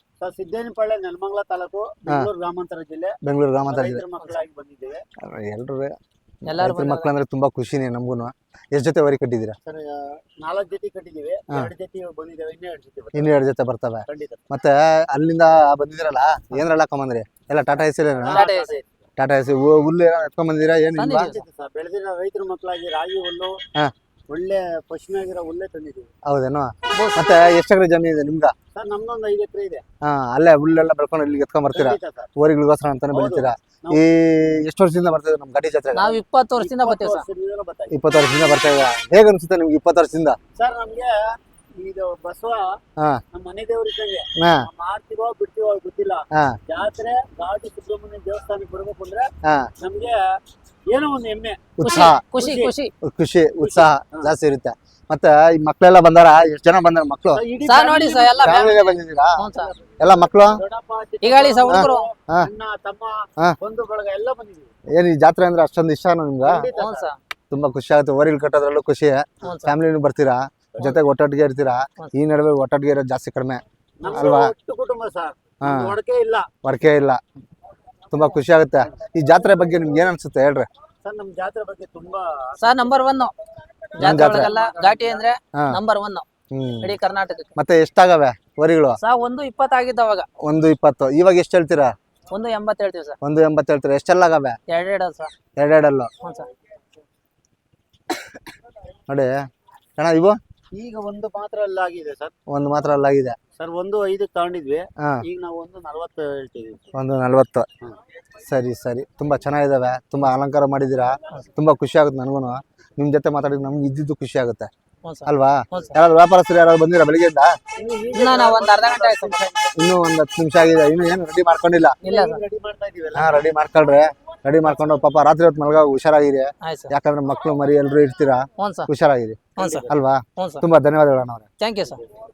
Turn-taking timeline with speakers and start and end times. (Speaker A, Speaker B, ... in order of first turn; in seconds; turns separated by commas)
Speaker A: 0.2-5.0, Speaker B: 3.2-4.0, Speaker B: 5.3-6.0, Speaker C: 6.5-7.1, Speaker B: 6.5-9.6, Speaker A: 9.6-13.3, Speaker B: 13.1-18.5, Speaker A: 14.1-14.4, Speaker A: 18.2-18.9, Speaker C: 18.3-18.7, Speaker B: 19.2-21.3, Speaker C: 21.0-21.4, Speaker A: 21.1-23.6, Speaker A: 24.3-26.1, Speaker B: 26.2-28.5, Speaker C: 26.9-27.2, Speaker A: 28.7-29.8, Speaker B: 30.0-36.2, Speaker A: 31.7-32.3, Speaker A: 33.1-34.0, Speaker C: 35.9-37.3, Speaker A: 36.6-37.9, Speaker B: 37.9-40.4, Speaker A: 40.5-42.8, Speaker A: 43.3-50.2, Speaker B: 44.4-44.7, Speaker B: 49.4-49.7, Speaker A: 50.9-52.7, Speaker B: 51.8-52.2, Speaker C: 51.8-52.9, Speaker B: 53.0-57.4, Speaker A: 53.6-54.3, Speaker A: 57.3-64.7, Speaker C: 57.6-59.7, Speaker B: 58.4-59.5, Speaker B: 60.0-60.6, Speaker C: 61.2-62.1, Speaker B: 61.7-62.5, Speaker B: 64.9-66.7, Speaker A: 66.4-67.1, Speaker C: 66.7-67.2, Speaker B: 67.5-74.5, Speaker C: 69.4-69.7, Speaker A: 74.0-76.5, Speaker B: 75.6-76.0, Speaker B: 76.6-77.2, Speaker B: 78.1-80.7, Speaker A: 81.0-82.6, Speaker C: 82.6-83.3, Speaker C: 84.0-86.3, Speaker B: 84.0-84.5, Speaker A: 84.2-85.2, Speaker B: 86.5-86.9, Speaker C: 86.8-87.5, Speaker B: 87.6-89.0, Speaker C: 89.0-90.3, Speaker B: 90.4-91.9, Speaker C: 92.3-93.2, Speaker B: 93.2-94.6, Speaker C: 94.7-95.3, Speaker B: 95.6-96.1, Speaker C: 96.2-96.5, Speaker B: 100.0-100.4, Speaker A: 100.7-102.3, Speaker B: 102.5-103.4, Speaker A: 103.6-106.8, Speaker B: 106.9-107.7, Speaker B: 108.5-114.7, Speaker C: 115.0-115.9, Speaker B: 115.3-117.5, Speaker A: 117.8-119.8, Speaker C: 118.1-119.5, Speaker B: 119.8-122.0, Speaker A: 122.0-123.5, Speaker C: 122.0-122.4, Speaker B: 123.2-131.5, Speaker C: 126.6-126.9, Speaker C: 128.6-128.9, Speaker A: 129.6-129.9, Speaker C: 129.6-130.7, Speaker C: 131.6-132.0